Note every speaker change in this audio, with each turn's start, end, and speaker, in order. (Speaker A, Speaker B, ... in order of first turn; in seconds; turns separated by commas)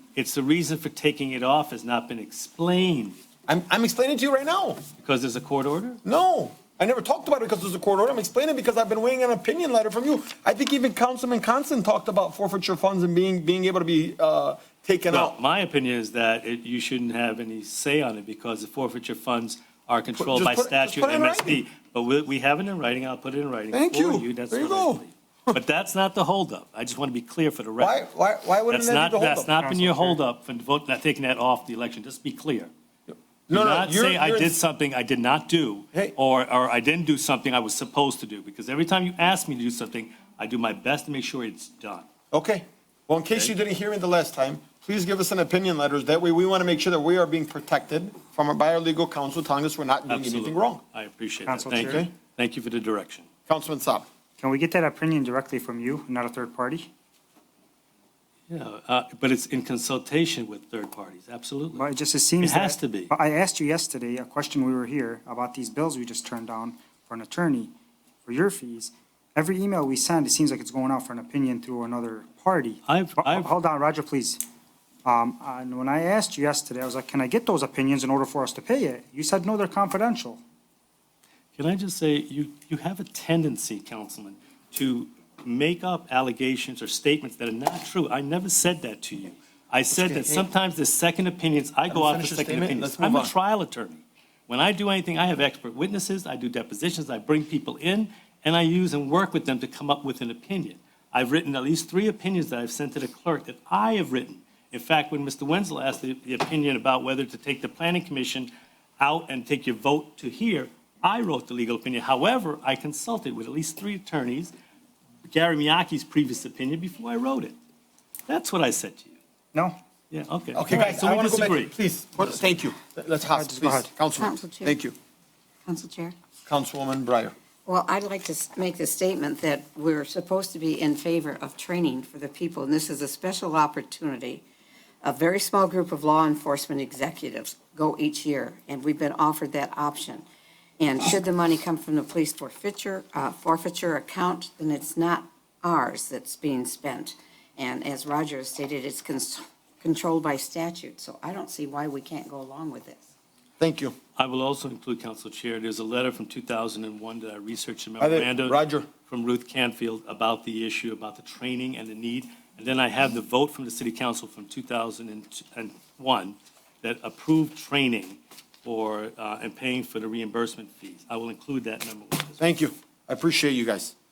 Speaker A: 0.1-3.2, Speaker B: 3.5-4.8, Speaker A: 5.0-6.0, Speaker B: 6.0-15.3, Speaker A: 15.1-28.0, Speaker B: 20.2-21.6, Speaker B: 23.7-25.6, Speaker B: 27.8-29.5, Speaker A: 28.7-32.7, Speaker C: 29.6-30.2, Speaker B: 33.1-34.6, Speaker A: 33.5-42.1, Speaker B: 42.3-50.8, Speaker A: 50.1-53.3, Speaker C: 51.5-52.0, Speaker B: 51.8-52.1, Speaker B: 53.5-54.1, Speaker C: 54.4-56.9, Speaker A: 58.5-61.9, Speaker C: 61.7-67.7, Speaker A: 62.4-63.1, Speaker C: 68.2-74.4, Speaker A: 72.9-73.5, Speaker C: 75.0-80.4, Speaker A: 81.5-114.5, Speaker B: 89.9-90.5, Speaker B: 91.9-93.3, Speaker A: 115.2-117.5, Speaker A: 118.3-119.2, Speaker A: 120.1-121.8, Speaker B: 120.5-124.9, Speaker C: 123.3-123.9, Speaker D: 124.1-124.8, Speaker D: 125.7-126.1, Speaker B: 126.5-127.3, Speaker D: 127.7-134.4, Speaker D: 135.0-140.2, Speaker D: 140.8-153.1, Speaker B: 153.6-153.9, Speaker A: 154.2-172.4, Speaker B: 158.0-158.9, Speaker B: 172.4-173.9